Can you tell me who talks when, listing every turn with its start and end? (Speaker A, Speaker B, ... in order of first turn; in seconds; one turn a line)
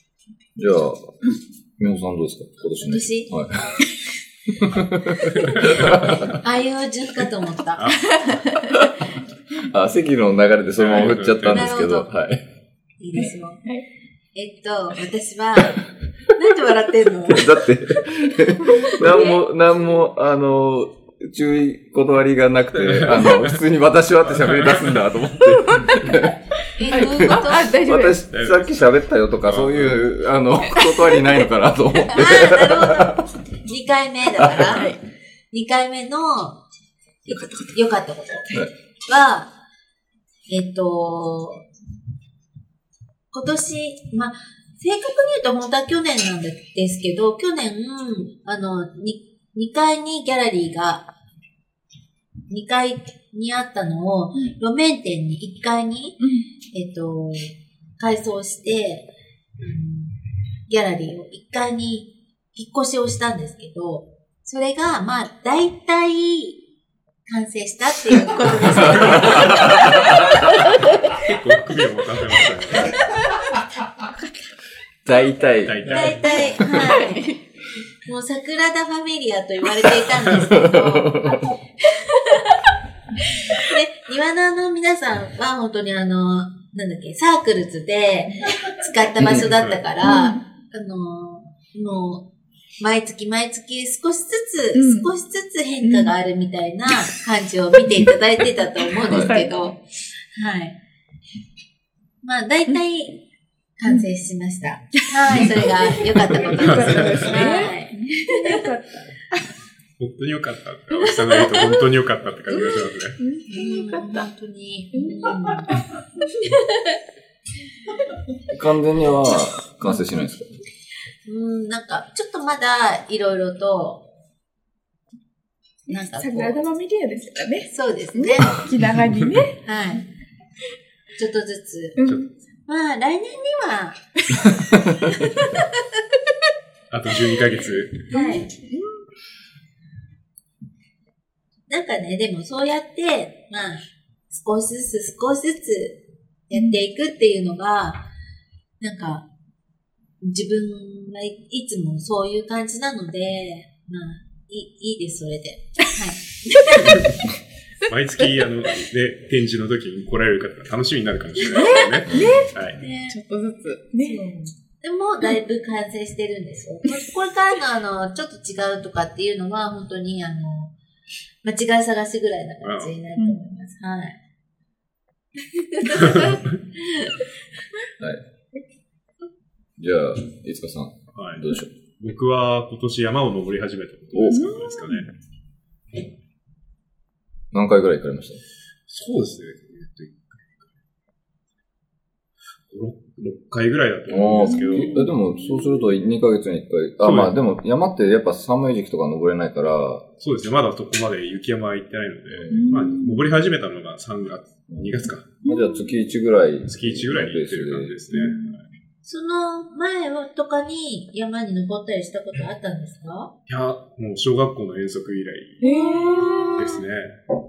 Speaker A: 0.6-1.2
Speaker A: 1.8-3.8
Speaker B: 2.6-3.3
Speaker A: 4.6-6.3
Speaker C: 5.5-6.4
Speaker B: 5.7-8.0
Speaker C: 7.8-8.3
Speaker D: 7.9-8.9
Speaker A: 9.7-12.4
Speaker C: 10.8-11.7
Speaker B: 11.4-12.1
Speaker B: 13.0-13.7
Speaker D: 13.2-13.8
Speaker B: 14.3-17.6
Speaker A: 17.3-26.3
Speaker B: 18.8-19.4
Speaker C: 22.7-23.6
Speaker C: 24.2-25.1
Speaker D: 25.5-28.2
Speaker B: 26.8-27.8
Speaker A: 26.9-33.2
Speaker C: 28.3-28.9
Speaker C: 29.4-30.0
Speaker D: 30.8-31.4
Speaker B: 32.1-35.0
Speaker D: 34.5-35.0
Speaker B: 35.5-36.6
Speaker B: 37.2-39.5
Speaker B: 40.5-41.7
Speaker B: 43.3-51.1
Speaker B: 52.5-56.2
Speaker D: 56.2-56.5
Speaker B: 56.7-66.6
Speaker B: 67.3-70.3
Speaker C: 68.8-70.1
Speaker A: 68.8-70.5
Speaker C: 71.2-73.0
Speaker A: 75.0-76.0
Speaker C: 75.7-76.5
Speaker B: 75.9-77.4
Speaker D: 76.2-77.3
Speaker B: 78.0-81.4
Speaker A: 80.4-81.5
Speaker B: 83.5-92.3
Speaker C: 89.3-89.8
Speaker D: 90.0-90.4
Speaker B: 92.8-99.8
Speaker D: 94.8-95.1
Speaker D: 95.8-96.1
Speaker D: 99.0-99.6
Speaker A: 99.1-99.3
Speaker B: 100.3-100.8
Speaker B: 102.2-103.2
Speaker B: 103.8-108.7
Speaker D: 105.2-109.1
Speaker C: 106.4-107.6
Speaker C: 110.0-113.2
Speaker D: 111.1-111.7
Speaker D: 112.5-114.3
Speaker B: 113.5-115.7
Speaker D: 115.0-117.0
Speaker A: 118.5-120.5
Speaker B: 121.2-124.0
Speaker D: 125.9-129.7
Speaker B: 125.9-126.8
Speaker B: 127.7-128.7
Speaker C: 128.8-129.5
Speaker B: 129.6-130.1
Speaker B: 131.1-132.0
Speaker D: 132.0-132.3
Speaker C: 132.0-132.3
Speaker B: 132.7-134.0
Speaker D: 134.3-135.7
Speaker C: 136.9-138.1
Speaker D: 138.1-139.0
Speaker B: 138.1-138.5
Speaker B: 141.7-148.1
Speaker D: 146.5-146.8
Speaker B: 148.8-149.3
Speaker B: 150.2-156.8
Speaker D: 156.6-157.1
Speaker C: 157.9-162.8
Speaker B: 161.4-161.8
Speaker D: 161.5-164.3
Speaker A: 162.1-162.6
Speaker B: 162.8-163.2
Speaker B: 164.0-170.7
Speaker B: 171.4-174.2
Speaker C: 172.6-172.9
Speaker D: 173.2-173.4
Speaker B: 175.6-177.2
Speaker C: 176.0-176.6
Speaker A: 179.8-181.7
Speaker C: 181.2-181.4
Speaker C: 182.0-185.1
Speaker A: 184.1-184.5
Speaker D: 184.3-185.1
Speaker A: 187.5-188.4
Speaker C: 188.9-190.7
Speaker C: 192.7-195.1
Speaker A: 194.1-200.1
Speaker D: 194.4-195.8
Speaker C: 197.0-197.3
Speaker C: 200.2-205.3
Speaker A: 202.3-203.0
Speaker D: 202.5-203.3
Speaker A: 204.7-208.0
Speaker D: 205.4-206.0
Speaker C: 206.7-208.7
Speaker D: 208.1-208.6
Speaker B: 209.0-213.3
Speaker C: 213.5-215.6
Speaker B: 215.6-216.6
Speaker D: 215.6-216.8
Speaker C: 216.5-217.2